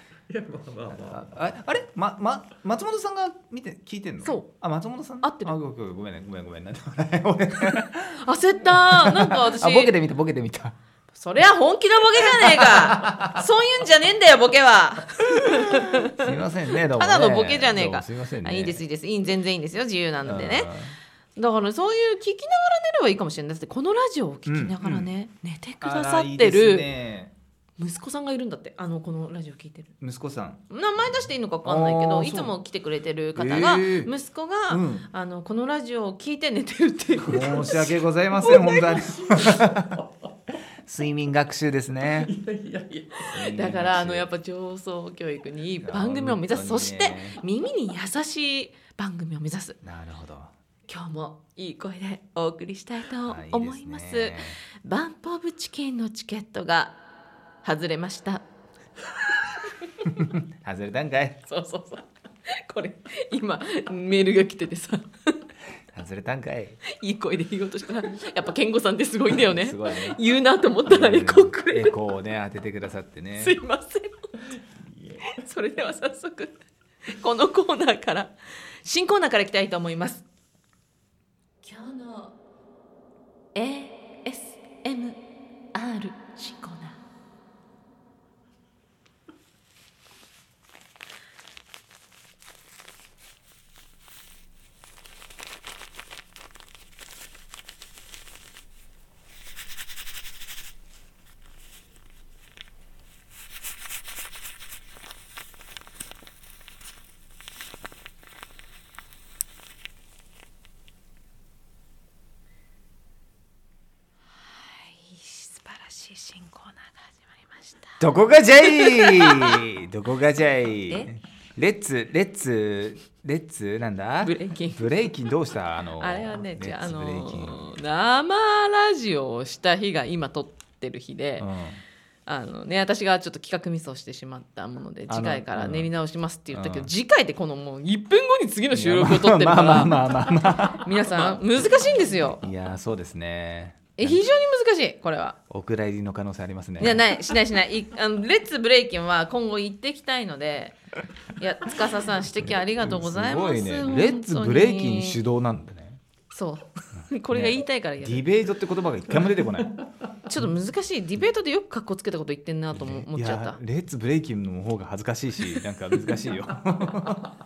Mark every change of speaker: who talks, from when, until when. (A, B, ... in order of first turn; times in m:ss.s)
0:00.3-0:01.3 A
0:01.0-0:08.2 B
0:04.2-0:04.5 C
0:05.2-0:05.6 C
0:08.2-0:10.0 C
0:08.8-0:10.8 B
0:11.1-0:16.2 C
0:12.5-0:13.4 B
0:16.0-0:18.8 B
0:17.0-0:20.7 C
0:20.3-0:21.0 B
0:21.4-0:26.9 C
0:24.5-0:25.1 B
0:25.8-0:27.3 B
0:27.8-0:29.9 C
0:30.0-0:30.6 B
0:30.7-0:39.2 C
0:31.6-0:32.5 B
0:33.4-0:34.1 B
0:34.7-0:35.1 B
0:37.2-0:40.0 B
0:39.2-0:40.1 A
0:40.8-0:42.4 B
0:42.1-0:43.3 A
0:43.2-0:44.3 B
0:43.3-0:49.8 C
0:45.8-0:47.4 B
0:49.8-0:50.5 B
0:50.9-0:57.0 C
0:53.3-0:54.6 B
0:57.6-0:58.4 C
1:00.0-1:01.4 B
1:01.4-1:05.4 C
1:05.9-1:06.8 B
1:06.8-1:12.0 C
1:09.4-1:10.2 B
1:10.9-1:13.6 B
1:13.4-1:14.2 C
1:15.2-1:20.2 C
1:21.6-1:22.3 C
1:23.6-1:25.2 C
1:25.7-1:27.0 C
1:54.5-1:58.0 C
1:58.0-2:07.6 B
1:58.7-1:59.6 C
2:04.2-2:05.0 C
2:06.0-2:11.5 C
2:11.4-2:11.8 B
2:12.3-2:22.4 C
2:15.1-2:15.9 B
2:16.5-2:16.9 B
2:18.7-2:21.1 B
2:22.4-2:24.2 B
2:24.0-2:25.4 C
2:25.5-2:27.1 B
2:26.8-2:30.8 C
2:31.4-2:35.2 C
2:32.8-2:36.0 B
2:36.3-2:38.2 C
2:37.3-2:39.8 B
2:40.2-2:43.6 C
2:42.7-2:47.3 B